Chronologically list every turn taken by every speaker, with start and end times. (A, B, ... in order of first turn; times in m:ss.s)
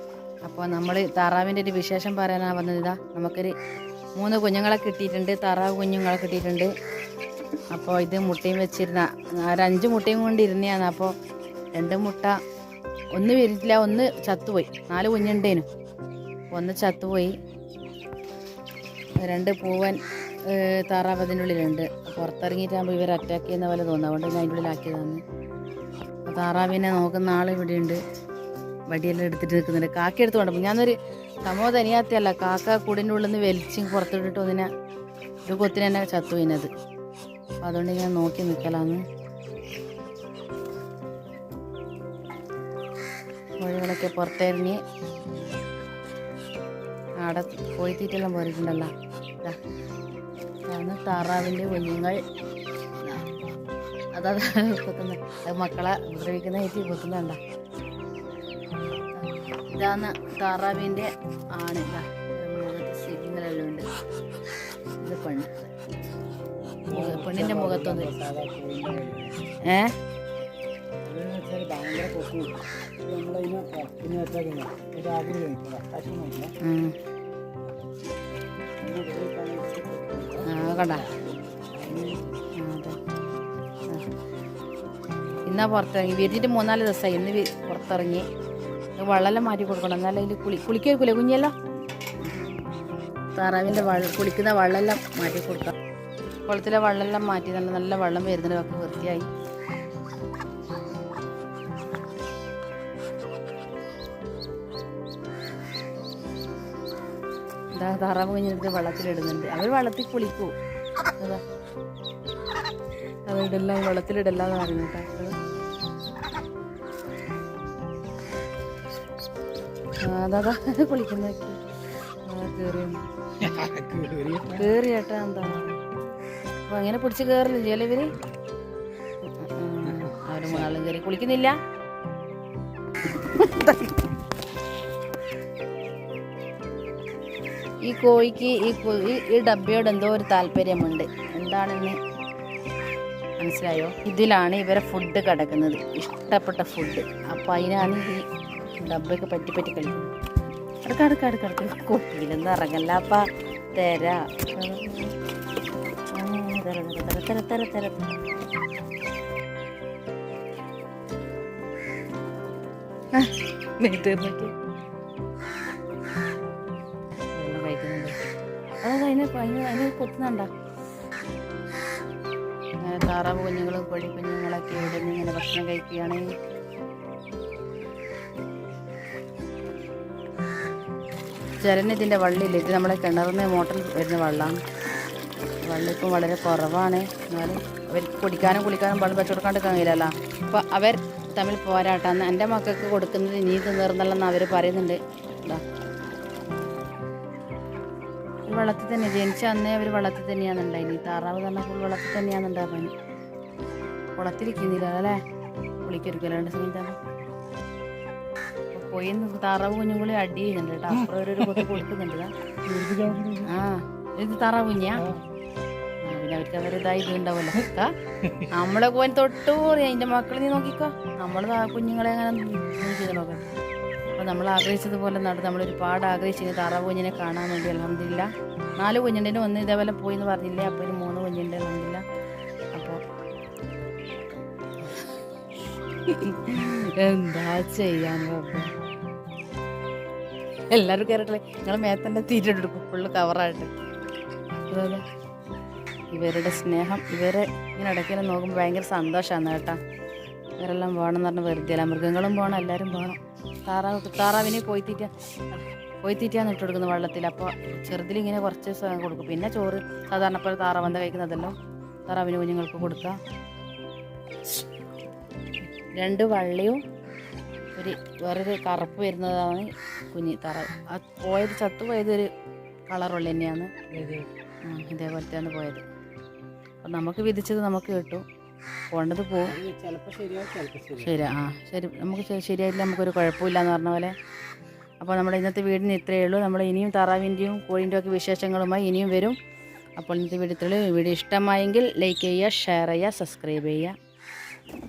0:00.4-0:03.5 A
0:04.2-0:06.7 A
0:07.7-0:11.1 A
0:11.8-0:12.4 A
0:13.1-0:15.7 A
0:16.5-0:17.3 A
0:19.2-0:25.2 A
0:26.3-0:28.0 A
0:28.9-0:34.7 A
0:35.5-0:36.7 A
0:37.6-0:39.0 A
0:43.6-0:44.8 A
0:47.2-0:48.9 A
0:50.7-0:52.2 A
0:54.1-0:57.4 A
0:59.2-1:03.8 A
1:05.0-1:05.7 A
1:06.9-1:08.1 A
1:06.9-1:09.4 B
1:09.7-1:09.9 A
1:11.0-1:16.5 B
1:16.6-1:17.0 A
1:18.8-1:22.5 B
1:20.5-1:21.1 A
1:22.6-1:23.0 A
1:25.5-1:28.2 A
1:29.0-1:31.5 A
1:32.3-1:32.6 A
1:33.4-1:35.7 A
1:36.5-1:39.3 A
1:47.8-1:50.5 A
1:53.3-1:55.4 A
2:00.0-2:01.6 A
2:02.3-2:03.0 A
2:03.4-2:04.7 B
2:04.5-2:05.8 A
2:06.7-2:08.1 A
2:09.3-2:11.6 A
2:13.1-2:14.0 A
2:17.9-2:22.0 A
2:23.4-2:28.2 A
2:28.8-2:30.1 A
2:30.8-2:33.2 A
2:33.8-2:35.1 A
2:36.2-2:38.1 A
2:43.2-2:44.5 A
2:47.4-2:48.1 A
2:48.8-2:50.5 A
2:52.8-2:56.3 A
3:01.6-3:04.6 A
3:05.7-3:15.6 A
3:18.5-3:22.9 A
3:24.2-3:25.2 A
3:25.8-3:27.0 A
3:28.7-3:32.3 A
3:32.7-3:33.6 B
3:33.4-3:35.1 A
3:36.0-3:37.9 A
3:38.5-3:43.6 A
3:44.2-3:52.0 A
3:52.7-3:53.0 A
3:56.1-3:58.7 A
4:00.7-4:03.7 A
4:04.7-4:05.0 A
4:06.1-4:09.8 A
4:10.6-4:21.5 A
4:22.1-4:23.2 A
4:25.8-4:26.8 A
4:27.8-4:32.3 A
4:32.9-4:33.7 A
4:33.9-4:34.3 B
4:34.7-4:35.8 A
4:36.8-4:38.2 A
4:38.9-4:39.6 A
4:39.4-4:41.2 B
4:41.0-4:44.1 A
4:45.0-4:49.4 A
4:50.0-4:53.9 A